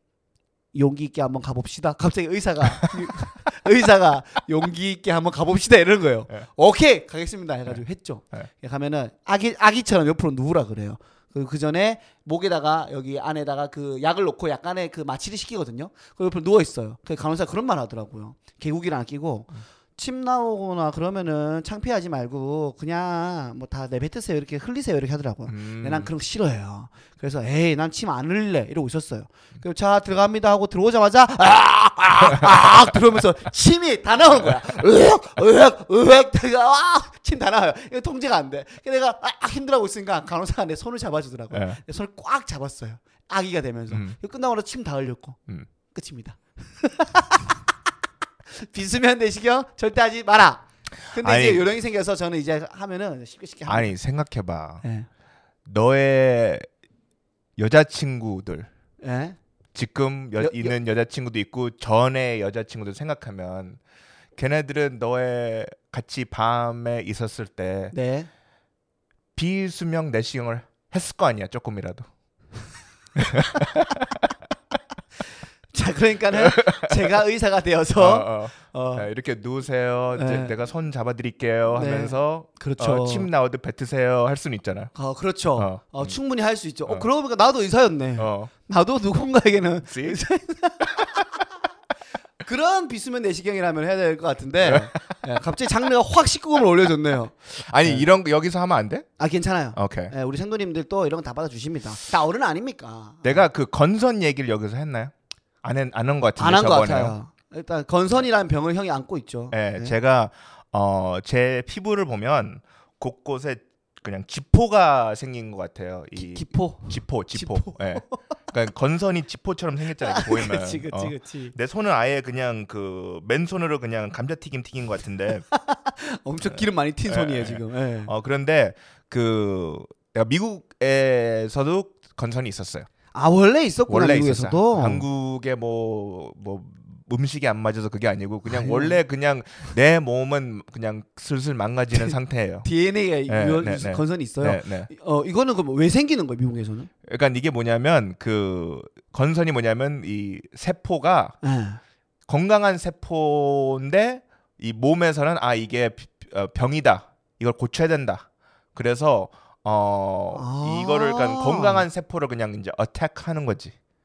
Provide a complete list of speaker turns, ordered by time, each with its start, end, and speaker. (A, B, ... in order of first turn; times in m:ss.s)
0:00.7-0:45.4 A
0:25.5-0:26.1 B
0:32.3-0:32.7 B
0:41.5-0:41.8 B
0:43.9-0:44.2 B
0:45.9-0:47.5 A
0:48.5-0:53.9 A
0:51.1-0:51.7 B
0:53.7-0:54.8 B
0:54.8-0:55.1 A
0:55.6-0:56.6 B
0:57.6-0:58.7 B
0:59.0-0:59.4 A
0:59.7-1:03.8 B
1:00.4-1:00.7 A
1:04.4-1:07.9 B
1:07.9-1:08.3 A
1:09.3-1:12.0 B
1:13.2-1:14.2 B
1:15.7-1:19.1 A
1:16.4-1:16.9 B
1:18.0-1:24.9 B
1:20.1-1:20.6 A
1:21.7-1:23.3 A
1:24.9-1:31.4 A
1:25.6-1:26.2 B
1:28.2-1:28.5 B
1:29.8-1:30.2 B
1:32.4-1:38.1 A
1:34.6-1:35.1 B
1:37.5-1:39.1 B
1:39.2-1:43.5 A
1:39.7-1:40.1 B
1:43.2-1:45.1 B
1:45.6-1:47.1 B
1:46.4-1:49.9 A
1:49.5-2:05.4 B
1:56.2-1:58.2 A
2:00.0-2:01.6 A
2:05.5-2:08.1 A
2:06.4-2:12.9 B
2:13.1-2:15.0 A
2:13.9-2:22.7 B
2:18.4-2:19.0 A
2:22.6-2:26.9 A
2:23.3-2:24.9 B
2:27.0-2:31.4 B
2:31.4-2:31.8 A
2:32.3-2:43.7 B
2:40.3-2:41.8 A